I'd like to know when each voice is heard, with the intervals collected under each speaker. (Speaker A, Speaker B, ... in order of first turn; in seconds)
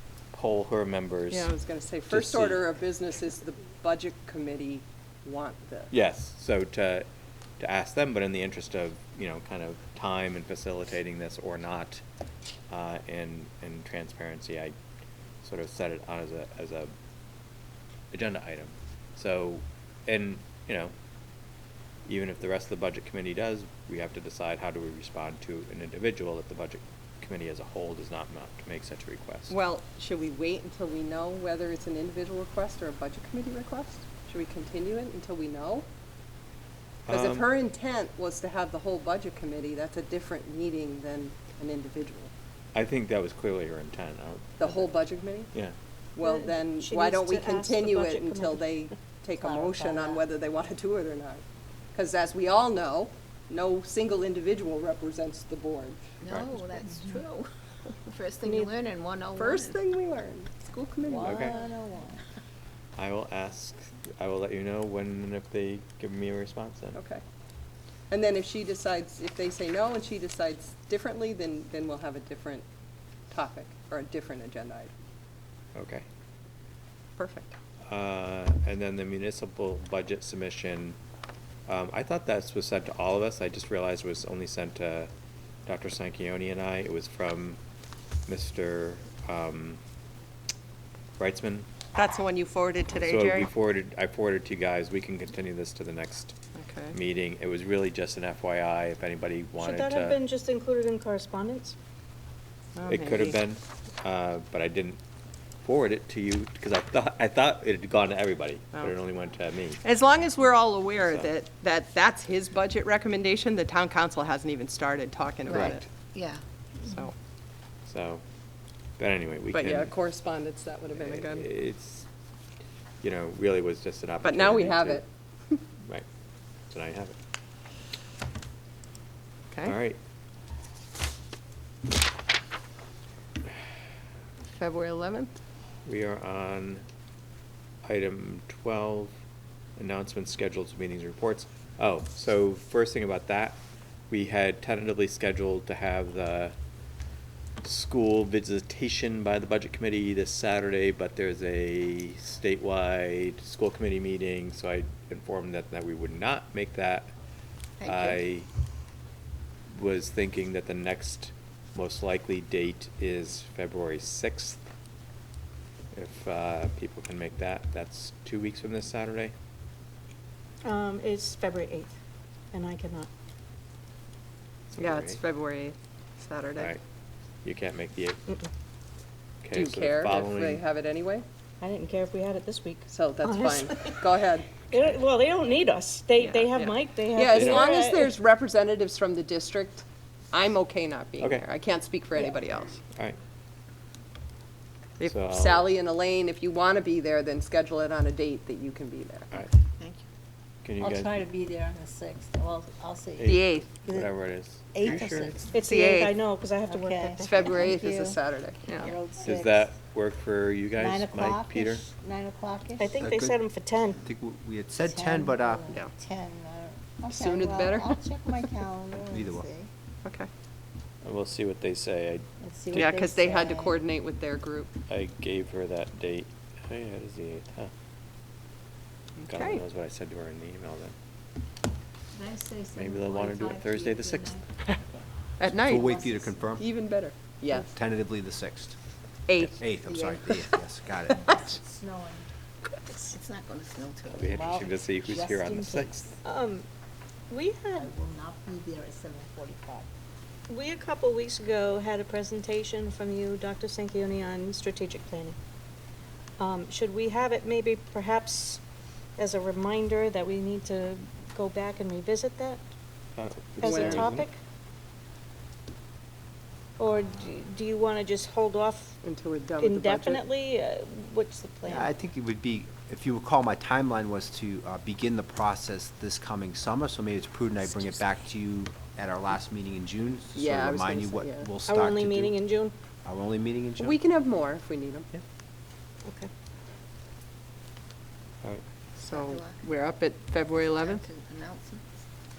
Speaker A: 0.3-1.5, 2.1-2.6, 5.9-7.0, 7.6-12.0, 12.7-14.8, 15.4-16.9, 18.1-20.9, 22.1-29.6, 37.1-37.5, 42.7-44.9, 56.3-56.7, 61.2-61.5, 63.0-67.0, 75.7-76.0, 77.9-81.0, 81.7-85.1, 85.7-87.6, 88.3-89.8, 91.2-91.7, 92.9-96.3, 96.9-100.2, 102.9-105.0, 105.6-109.8, 111.0-111.3, 115.5-115.8, 117.8-118.2, 119.0-119.9, 120.9-122.1, 123.0-125.0, 126.7-127.2, 129.6-130.0, 135.8-136.8, 137.8-139.1, 139.8-143.6, 144.1-146.5, 147.6-157.1, 157.8-158.5, 159.7-164.6, 165.9-169.3, 174.7-175.2, 176.6-176.8, 177.4-178.2, 179.4-180.6, 187.3-187.7, 195.0-195.7, 200.6-201.1, 203.2-205.4, 209.2-211.8, 221.0-222.2, 224.9-227.7, 229.3-230.9, 232.7-234.7, 244.1-246.1, 263.2-264.3
Speaker B: 1.3-5.9, 29.5-35.9, 37.1-42.3, 44.6-45.5, 46.1-51.4, 51.9-56.1, 59.3-61.6, 66.9-67.2, 68.1-72.6, 73.3-74.9, 77.2-77.5, 91.9-93.5, 96.6-97.0, 102.8-103.4, 109.8-115.8, 116.8-117.1, 119.5-121.5, 124.2-125.6, 134.5-135.3, 174.8-176.7, 179.5-181.2, 182.9-184.6, 186.2-192.8, 195.0-199.3, 203.2-203.7, 205.6-206.2, 207.2-208.9, 217.1-218.1, 220.0-220.3, 222.7-224.7, 229.2-229.6, 235.4-235.9, 236.6-237.7, 239.3-239.6, 263.6-264.1, 269.0-270.2, 280.3-281.5, 283.8-285.1, 289.0-291.1
Speaker C: 46.2-48.7, 58.4-58.7, 99.6-101.7, 170.6-171.9, 172.5-173.1, 181.6-184.1, 184.7-188.1, 205.5-207.5, 212.8-214.0, 246.2-246.6, 247.3-247.9, 250.5-255.4, 256.4-258.6, 259.2-262.6, 263.6-264.4, 266.8-269.0, 269.6-271.9, 281.6-282.7
Speaker D: 49.3-50.2, 61.0-62.2, 200.8-205.5, 206.6-209.7, 210.8-213.1, 214.8-219.7, 222.4-223.8, 232.1-234.4, 235.7-236.4, 239.8-240.3, 241.1-242.3, 242.9-246.2, 247.7-249.9
Speaker E: 56.2-57.5, 58.0-59.8, 115.5-116.4, 157.8-158.2, 243.1-244.2, 289.1-289.6, 290.6-291.8
Speaker F: 213.0-213.4, 214.0-215.8, 218.9-219.5, 235.5-236.7, 237.5-238.8, 239.4-241.4, 271.6-282.4, 283.0-284.0